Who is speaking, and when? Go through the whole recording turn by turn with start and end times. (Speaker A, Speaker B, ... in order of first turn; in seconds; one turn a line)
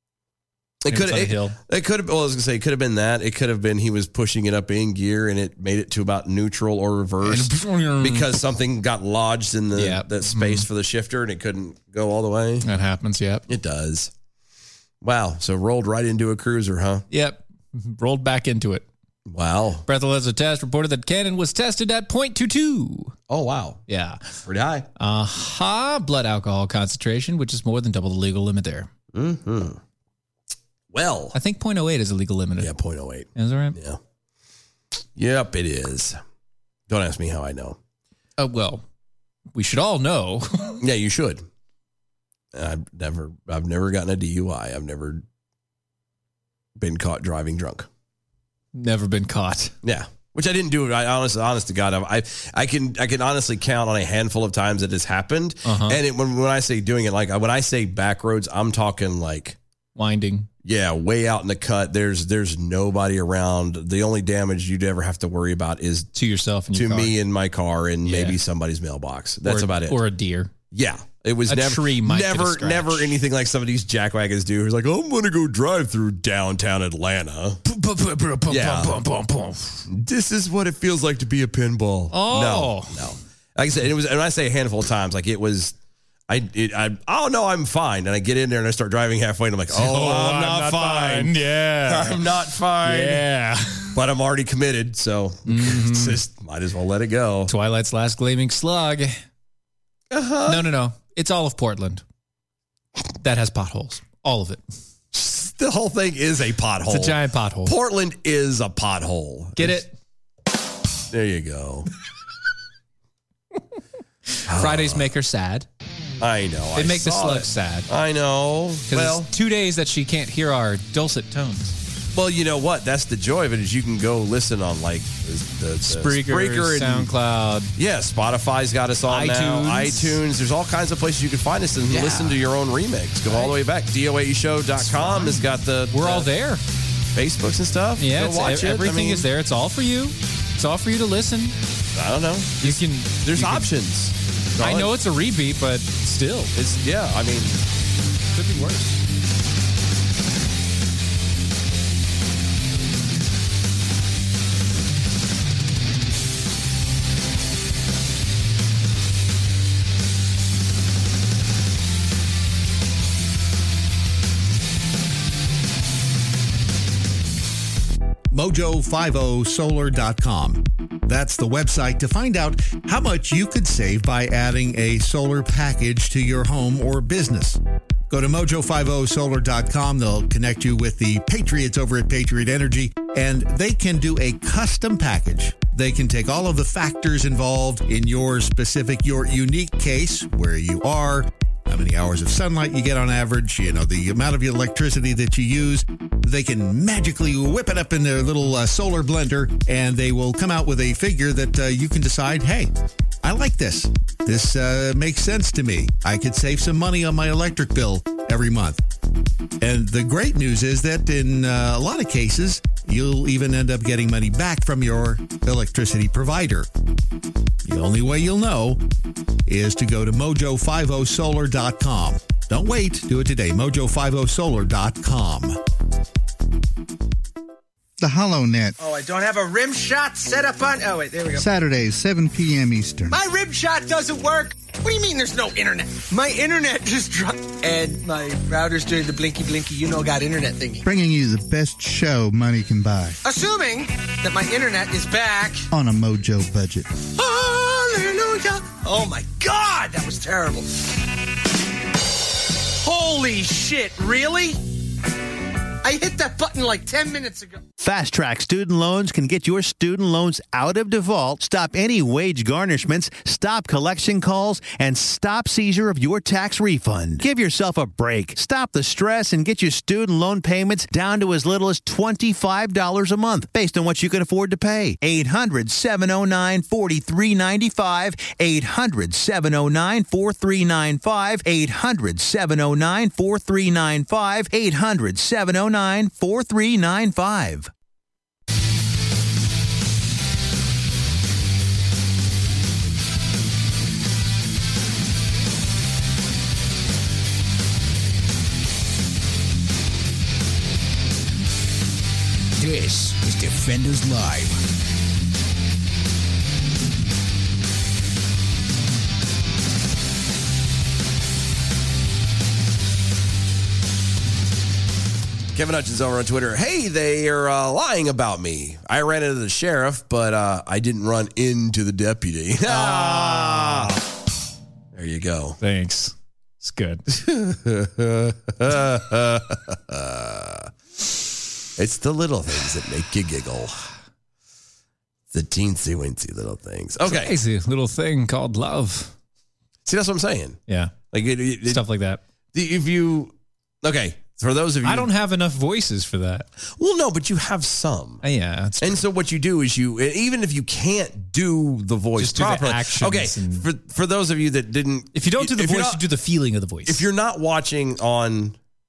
Speaker A: 0.8-12.7
Speaker B: 0.9-1.6
Speaker B: 7.2-8.3
Speaker B: 9.7-10.7
Speaker B: 12.6-13.4
Speaker A: 13.5-14.1
Speaker A: 15.0-17.0
Speaker B: 17.1-18.9
Speaker A: 19.3-19.9
Speaker B: 19.9-23.1
Speaker A: 23.3-23.8
Speaker B: 23.9-24.2
Speaker A: 24.4-24.9
Speaker B: 25.0-28.9
Speaker A: 29.1-29.8
Speaker A: 30.9-31.3
Speaker B: 31.3-32.7
Speaker A: 32.6-34.0
Speaker B: 33.3-33.8
Speaker A: 35.1-36.2
Speaker A: 36.9-37.8
Speaker B: 38.4-38.8
Speaker B: 39.5-40.8
Speaker A: 40.8-41.4
Speaker A: 42.5-45.2
Speaker A: 46.8-47.9
Speaker B: 48.7-49.7
Speaker A: 49.8-59.6
Speaker B: 55.6-56.0
Speaker B: 59.9-60.5
Speaker A: 60.6-66.1
Speaker B: 66.2-67.1
Speaker A: 66.7-70.0
Speaker B: 68.0-68.4
Speaker B: 69.4-70.5
Speaker A: 70.7-77.6
Speaker B: 71.5-73.1
Speaker B: 77.6-79.8
Speaker A: 78.5-79.0
Speaker A: 79.9-85.8
Speaker B: 82.1-83.0
Speaker A: 86.3-93.2
Speaker B: 89.7-92.2
Speaker B: 92.8-94.0
Speaker A: 93.9-97.5
Speaker B: 95.5-96.2
Speaker B: 97.5-99.2
Speaker A: 100.1-100.7
Speaker B: 100.4-102.0
Speaker B: 103.2-104.6
Speaker A: 105.1-109.8
Speaker B: 106.9-107.7
Speaker B: 109.6-109.9
Speaker A: 111.1-111.9
Speaker B: 114.3-115.7
Speaker A: 114.5-115.1
Speaker A: 116.2-119.3
Speaker B: 116.8-117.9
Speaker B: 118.9-121.8
Speaker A: 122.1-127.1
Speaker B: 125.9-127.7
Speaker A: 127.8-136.3
Speaker B: 129.1-130.2
Speaker B: 131.9-132.4
Speaker B: 133.3-133.6
Speaker B: 134.8-136.6
Speaker A: 137.1-139.3
Speaker B: 138.0-141.5
Speaker A: 141.9-144.9
Speaker B: 142.6-143.7
Speaker B: 144.6-146.5
Speaker A: 146.5-147.6
Speaker B: 148.3-149.0
Speaker C: 168.3-202.7
Speaker C: 203.2-208.8
Speaker C: 209.6-216.7
Speaker C: 217.6-218.8
Speaker C: 219.4-225.6
Speaker D: 228.0-228.7
Speaker E: 228.8-231.5
Speaker D: 231.4-233.2
Speaker E: 233.1-240.8
Speaker D: 240.8-243.2
Speaker E: 243.2-245.7
Speaker D: 245.7-246.9
Speaker E: 247.1-250.9
Speaker E: 252.8-254.6
Speaker E: 255.8-257.6
Speaker F: 257.8-287.7
Speaker G: 302.6-304.6
Speaker A: 315.5-324.0
Speaker B: 322.6-323.9
Speaker A: 324.9-325.6
Speaker B: 325.6-327.0
Speaker A: 327.1-330.7
Speaker A: 331.8-333.8
Speaker A: 335.3-337.3
Speaker B: 337.0-339.1
Speaker A: 339.8-340.6
Speaker B: 340.7-340.9
Speaker A: 341.1-341.8
Speaker B: 341.6-342.2
Speaker A: 342.5-345.1
Speaker B: 344.8-346.5
Speaker A: 346.6-348.2
Speaker B: 348.2-349.0
Speaker A: 348.8-356.0
Speaker B: 352.2-353.7
Speaker B: 355.1-357.0
Speaker A: 356.9-358.6